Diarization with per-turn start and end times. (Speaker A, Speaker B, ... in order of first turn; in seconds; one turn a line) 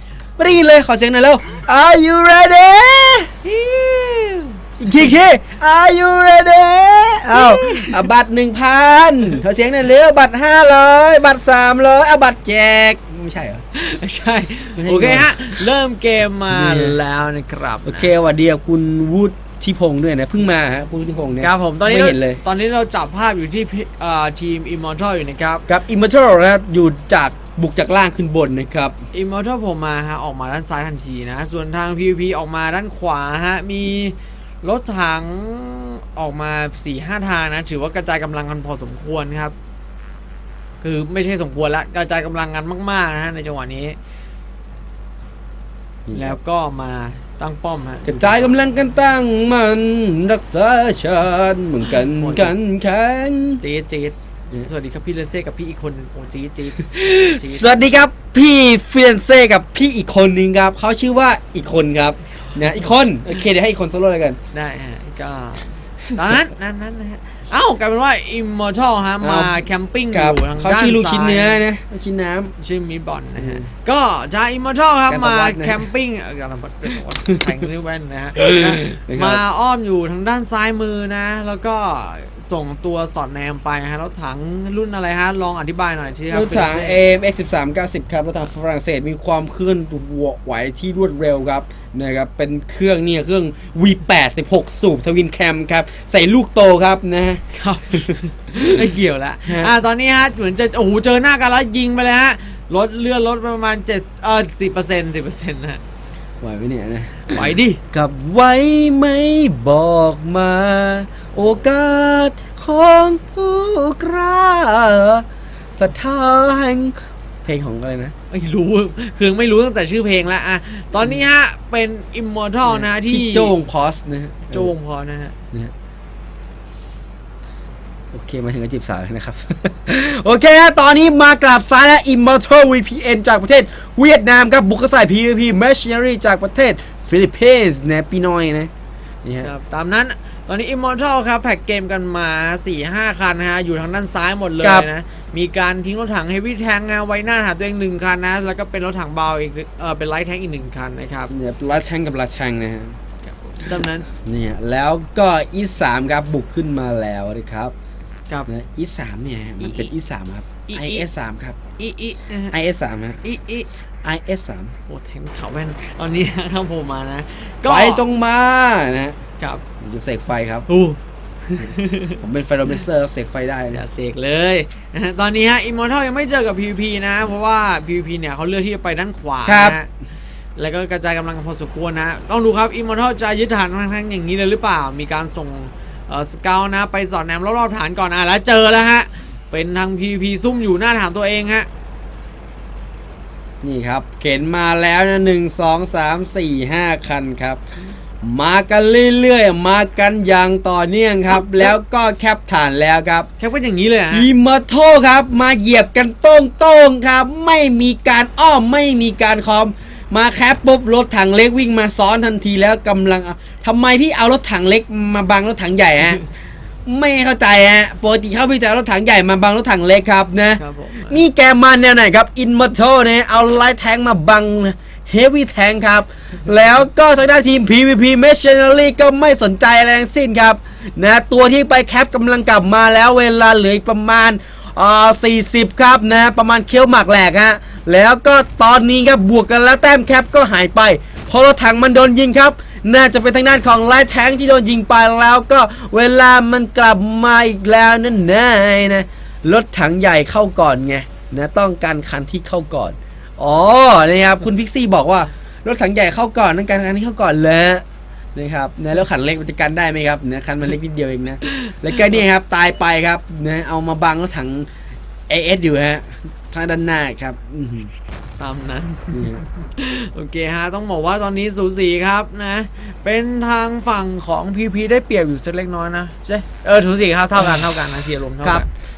Speaker A: 0.4-3.3
Speaker B: 3.4-4.6
Speaker A: 4.8-13.6
Speaker B: 7.3-8.0
Speaker B: 13.7-18.1
Speaker A: 14.8-15.6
Speaker A: 16.5-17.0
Speaker A: 17.8-22.4
Speaker B: 21.4-25.6
Speaker A: 25.7-28.9
Speaker B: 29.1-39.5
Speaker B: 40.8-44.0
Speaker A: 46.0-46.4
Speaker B: 46.1-48.5
Speaker A: 48.0-53.6
Speaker B: 52.0-52.5
Speaker B: 53.6-57.8
Speaker A: 56.9-64.4
Speaker B: 64.5-71.6
Speaker A: 69.2-72.5
Speaker B: 72.6-87.0
Speaker A: 73.4-73.7
Speaker A: 75.1-75.8
Speaker A: 78.4-79.4
Speaker A: 86.3-97.4
Speaker B: 97.5-105.8
Speaker A: 97.9-98.9
Speaker A: 99.5-99.7
Speaker A: 106.4-115.2
Speaker B: 107.3-107.8
Speaker A: 115.8-118.1
Speaker B: 118.3-123.5
Speaker A: 122.7-124.7
Speaker B: 124.5-125.3
Speaker A: 128.1-138.7
Speaker A: 139.2-139.5
Speaker B: 139.4-151.3
Speaker A: 144.6-144.9
Speaker A: 151.3-153.0
Speaker B: 153.2-154.1
Speaker A: 153.7-157.7
Speaker A: 158.5-161.6
Speaker B: 159.6-159.9
Speaker B: 160.7-161.0
Speaker B: 161.8-162.5
Speaker A: 162.5-163.2
Speaker B: 163.2-163.7
Speaker A: 164.0-164.7
Speaker B: 164.9-168.0
Speaker A: 167.7-169.2
Speaker A: 169.8-170.7
Speaker B: 170.7-172.2
Speaker A: 171.6-173.8
Speaker B: 173.7-179.9
Speaker A: 179.4-179.8
Speaker B: 180.6-191.7
Speaker A: 193.6-197.6
Speaker A: 198.2-203.3
Speaker B: 201.3-201.7
Speaker B: 203.4-204.3
Speaker A: 204.1-216.2
Speaker A: 216.8-257.8
Speaker B: 220.6-221.2
Speaker A: 258.3-264.7
Speaker B: 261.5-262.2
Speaker A: 265.3-267.9
Speaker B: 268.4-278.7
Speaker A: 269.1-269.4
Speaker A: 277.4-277.8